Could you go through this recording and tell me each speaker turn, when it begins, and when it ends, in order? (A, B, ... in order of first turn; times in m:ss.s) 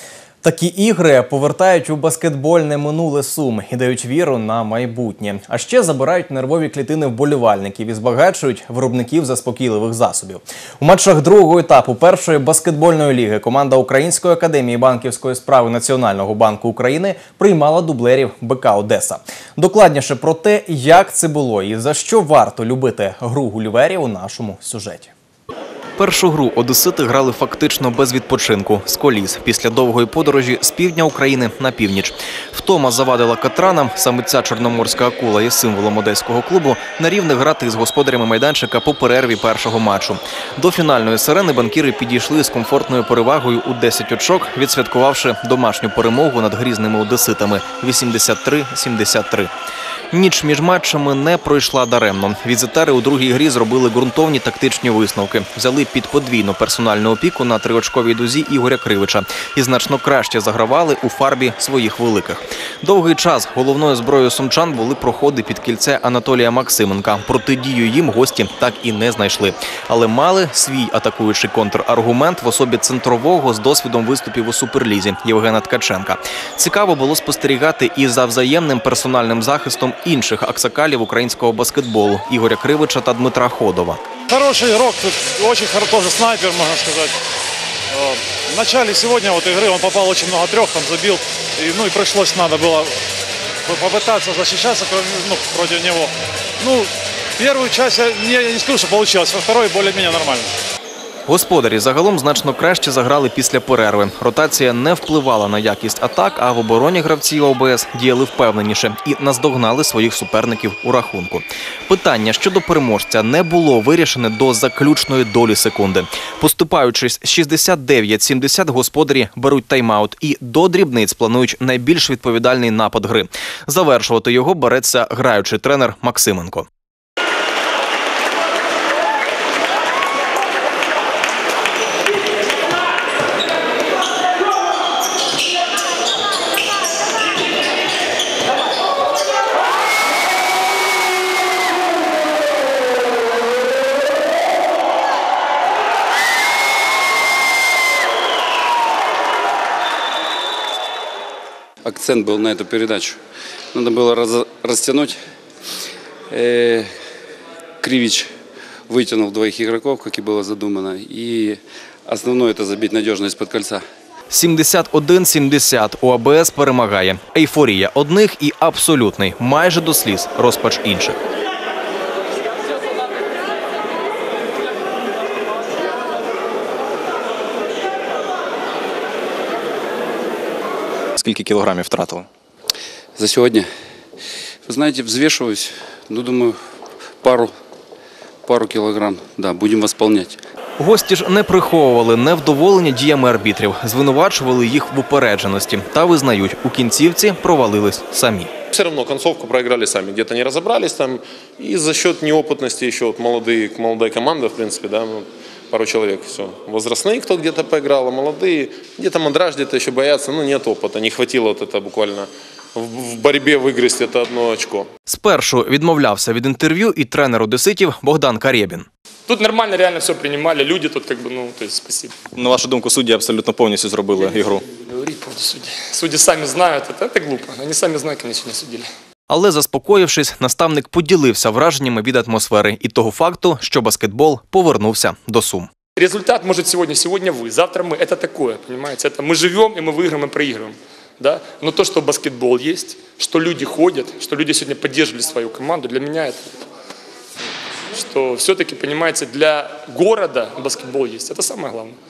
0:00.4-0:25.1 A
0:26.0-0:49.5 A
0:50.1-1:24.0 A
1:24.3-1:27.1 B
1:27.9-1:33.0 B
1:33.7-1:40.5 B
1:41.3-2:06.7 A
2:31.8-2:33.2 C
2:33.7-2:35.2 C
2:36.3-2:36.9 C
2:37.8-2:38.3 C
2:38.9-2:43.8 C
2:44.3-2:51.2 A
3:01.2-3:02.3 A
3:03.2-3:03.7 C
3:04.7-3:06.6 C
3:07.2-3:07.5 C
3:08.4-3:10.4 C
3:10.8-3:18.5 A
3:18.7-3:34.9 D
3:35.1-3:38.9 A
3:39.3-3:42.2 E
3:42.4-3:44.6 A
3:44.6-3:48.9 E
3:49.3-3:55.7 A
3:56.0-4:06.6 E
4:07.9-4:12.0 E